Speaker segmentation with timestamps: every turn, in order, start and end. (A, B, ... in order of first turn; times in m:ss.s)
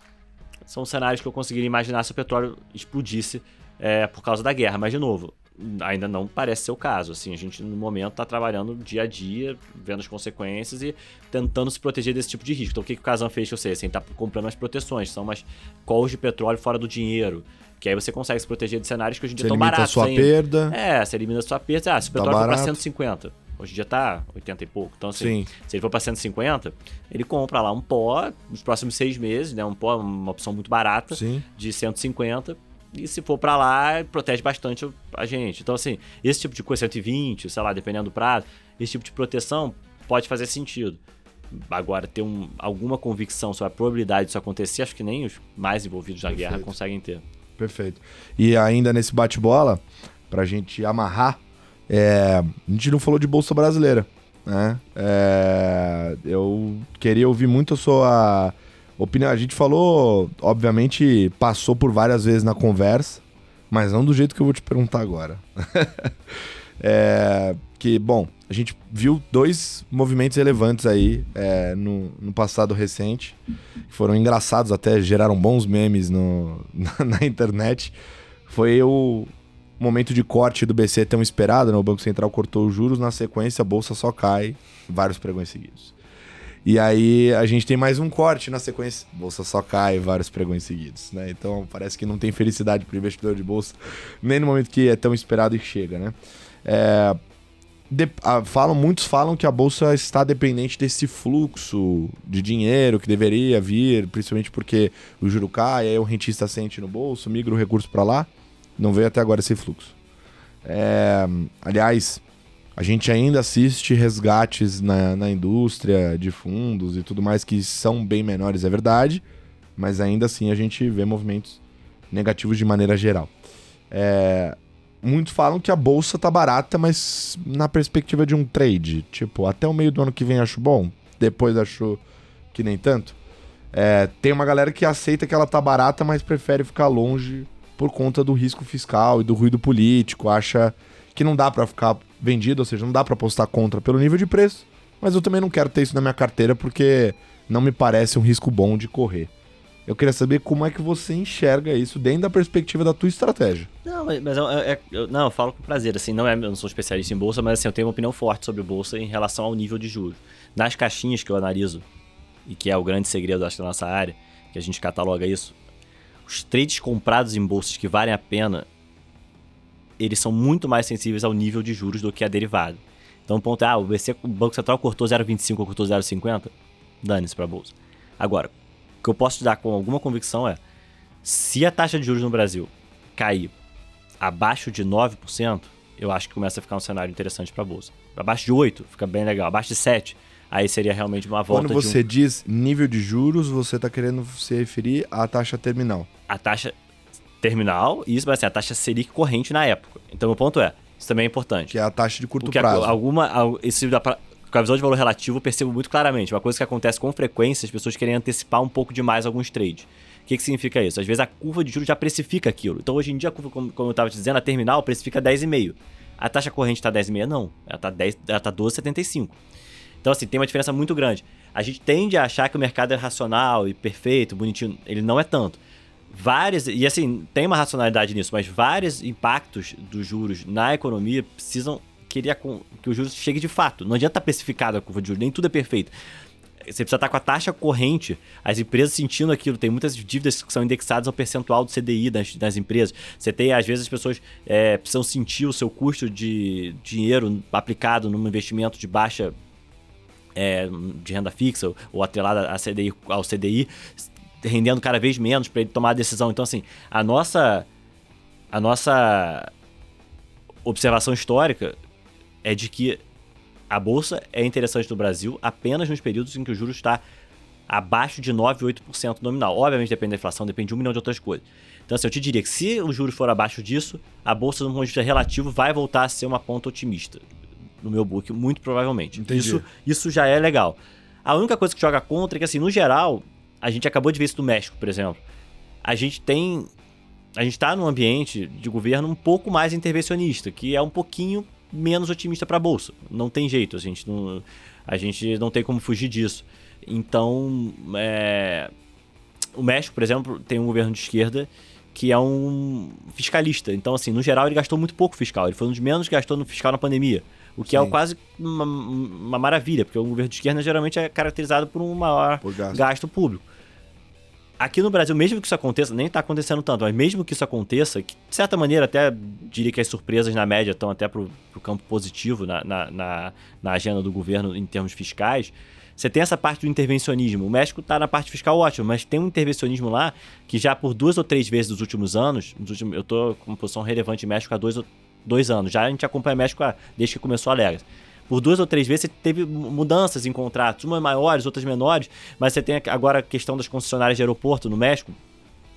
0:00.7-0:41.0 A
0:19.4-0:20.7 B
0:22.1-0:22.8 B
0:25.2-0:25.5 B
0:31.1-0:31.4 B
0:41.5-0:47.2 A
0:46.3-0:46.7 B
0:47.6-1:06.1 B
1:06.8-1:17.9 B
1:18.5-1:26.0 B
1:26.6-1:37.2 B
1:37.9-1:49.9 B
1:50.6-1:52.2 B
1:52.8-1:59.2 B
1:59.8-2:01.6 B
2:02.1-2:03.3 B
2:03.9-2:12.0 B
2:12.5-2:13.2 B
2:13.7-2:29.3 B
2:29.9-2:33.7 B
2:33.8-2:41.8 A
2:42.4-2:45.5 A
2:46.3-2:48.6 A
2:50.0-3:00.6 A
3:01.2-3:03.5 A
3:04.2-3:12.0 A
3:11.5-3:16.1 B
3:16.3-3:16.7 A
3:17.4-3:21.7 A
3:21.7-3:22.9 B
3:22.4-3:39.4 A
3:40.0-3:45.6 A
3:46.1-3:55.9 A
3:56.7-4:09.3 A
4:10.4-4:17.7 A
4:18.5-4:19.5 A
4:20.6-4:21.8 A
4:22.4-4:23.0 A
4:23.7-4:27.0 A
4:27.7-4:37.2 A
4:37.8-4:45.2 A
4:39.2-4:39.6 B
4:45.8-4:46.7 A
4:47.4-4:58.7 A
4:59.6-5:13.4 A
5:07.7-5:07.9 B
5:12.4-5:12.8 B
5:14.6-5:45.2 A